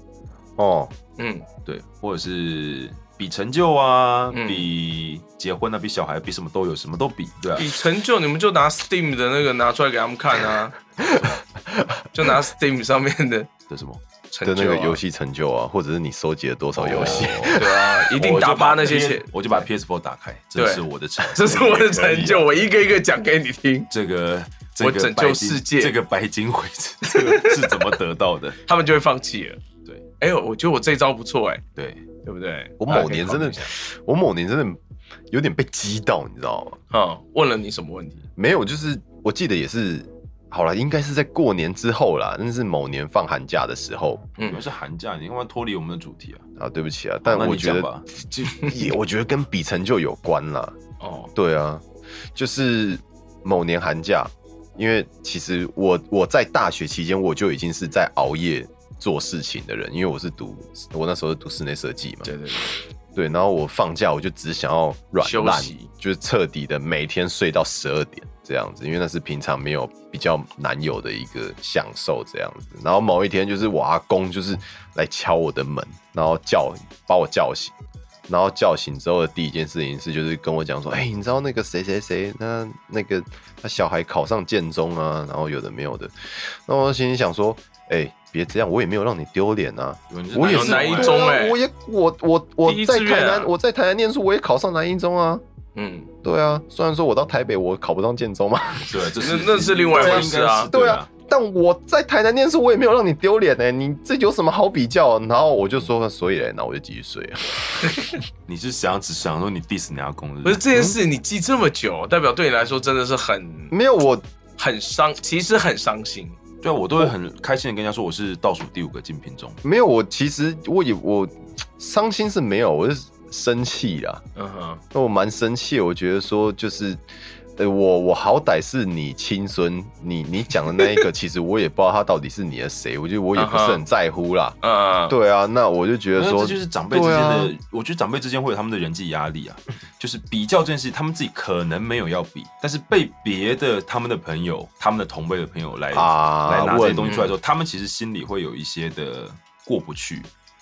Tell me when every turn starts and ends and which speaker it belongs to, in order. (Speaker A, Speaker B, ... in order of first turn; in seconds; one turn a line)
Speaker A: 0.6-0.9
Speaker B: 1.2-1.4
Speaker C: 1.6-7.7
Speaker B: 4.3-4.7
Speaker B: 7.6-10.7
Speaker A: 11.0-12.0
Speaker B: 12.1-13.5
Speaker C: 13.7-14.0
Speaker B: 14.3-15.0
Speaker A: 14.4-17.9
Speaker C: 16.7-22.6
Speaker B: 16.9-19.3
Speaker B: 20.6-23.9
Speaker A: 22.0-22.4
Speaker C: 23.9-28.6
Speaker B: 24.8-25.9
Speaker B: 27.0-27.9
Speaker B: 28.6-29.6
Speaker B: 30.2-31.6
Speaker C: 31.8-32.0
Speaker B: 32.2-33.7
Speaker A: 32.8-34.8
Speaker A: 35.3-36.8
Speaker B: 36.9-38.2
Speaker A: 38.4-44.3
Speaker C: 44.4-46.4
Speaker A: 46.6-50.8
Speaker C: 47.2-48.0
Speaker B: 51.0-51.3
Speaker A: 51.3-51.8
Speaker A: 52.3-62.3
Speaker B: 62.2-62.8
Speaker A: 63.1-77.7
Speaker B: 65.2-65.9
Speaker A: 78.3-95.4
Speaker C: 90.1-91.3
Speaker B: 90.4-91.6
Speaker B: 92.6-93.5
Speaker B: 95.7-96.1
Speaker A: 96.2-99.0
Speaker C: 98.7-101.1
Speaker B: 99.2-100.7
Speaker A: 99.9-108.0
Speaker C: 108.5-110.6
Speaker B: 110.4-113.7
Speaker A: 113.7-114.2
Speaker B: 114.6-116.4
Speaker C: 116.6-119.6
Speaker A: 119.6-124.2
Speaker B: 124.3-124.8
Speaker A: 124.9-127.0
Speaker A: 127.6-134.6
Speaker B: 133.3-133.8
Speaker B: 134.6-135.2
Speaker A: 135.1-137.5
Speaker C: 136.2-150.3
Speaker A: 145.9-147.3
Speaker B: 147.1-147.3